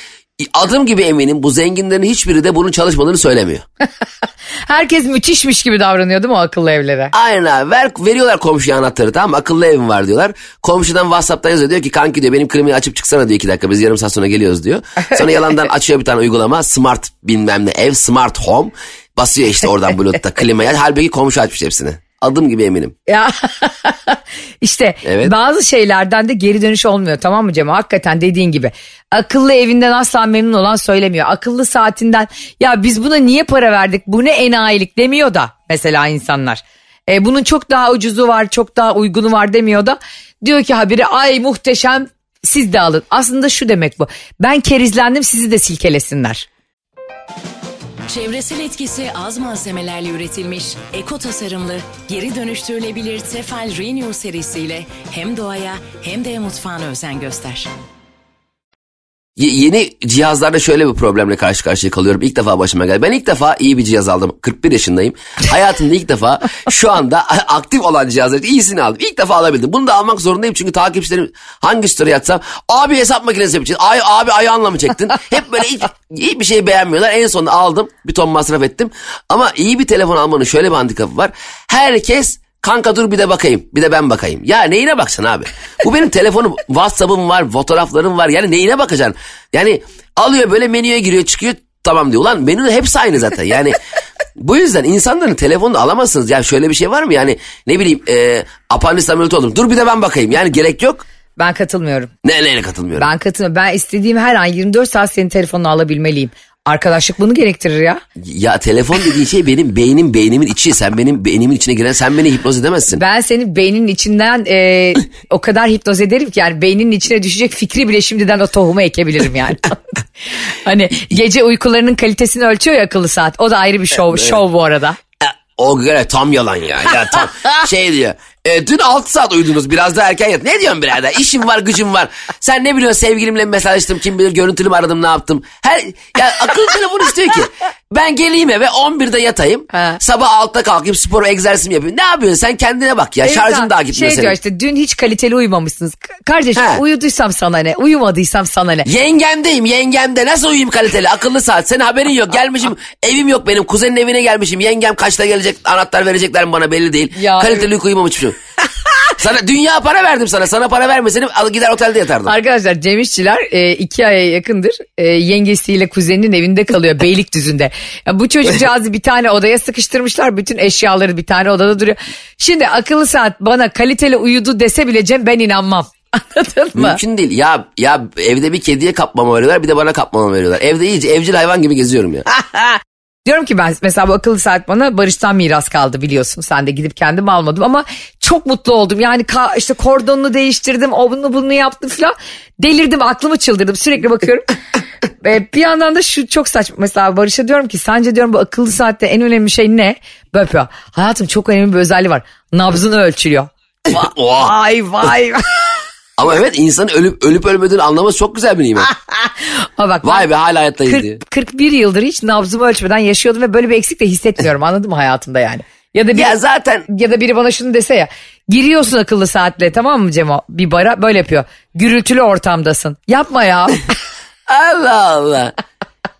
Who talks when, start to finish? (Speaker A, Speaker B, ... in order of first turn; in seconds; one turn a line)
Speaker A: 0.4-3.6
Speaker B: 4.7-7.1
Speaker A: 7.1-22.9
Speaker B: 23.1-46.5
Speaker A: 25.0-25.3
Speaker C: 48.1-57.7
Speaker A: 59.4-93.8
Speaker A: 94.4-101.0
Speaker B: 101.4-102.1
Speaker A: 102.2-103.1
Speaker B: 103.0-108.0
Speaker A: 108.2-113.0
Speaker B: 112.9-119.8
Speaker B: 120.5-125.0
Speaker A: 125.2-144.3
Speaker B: 139.7-140.0
Speaker B: 143.2-148.9
Speaker A: 146.6-146.8
Speaker A: 148.8-158.3
Speaker B: 157.2-157.7
Speaker A: 159.2-162.3
Speaker B: 162.2-177.0
Speaker A: 176.7-182.2
Speaker B: 183.2-194.5
Speaker B: 195.2-205.7
Speaker A: 204.0-204.5
Speaker A: 206.2-208.9
Speaker B: 209.1-210.3
Speaker A: 210.0-211.2
Speaker B: 210.9-216.3
Speaker A: 216.1-216.9
Speaker B: 216.9-223.8
Speaker A: 224.5-225.5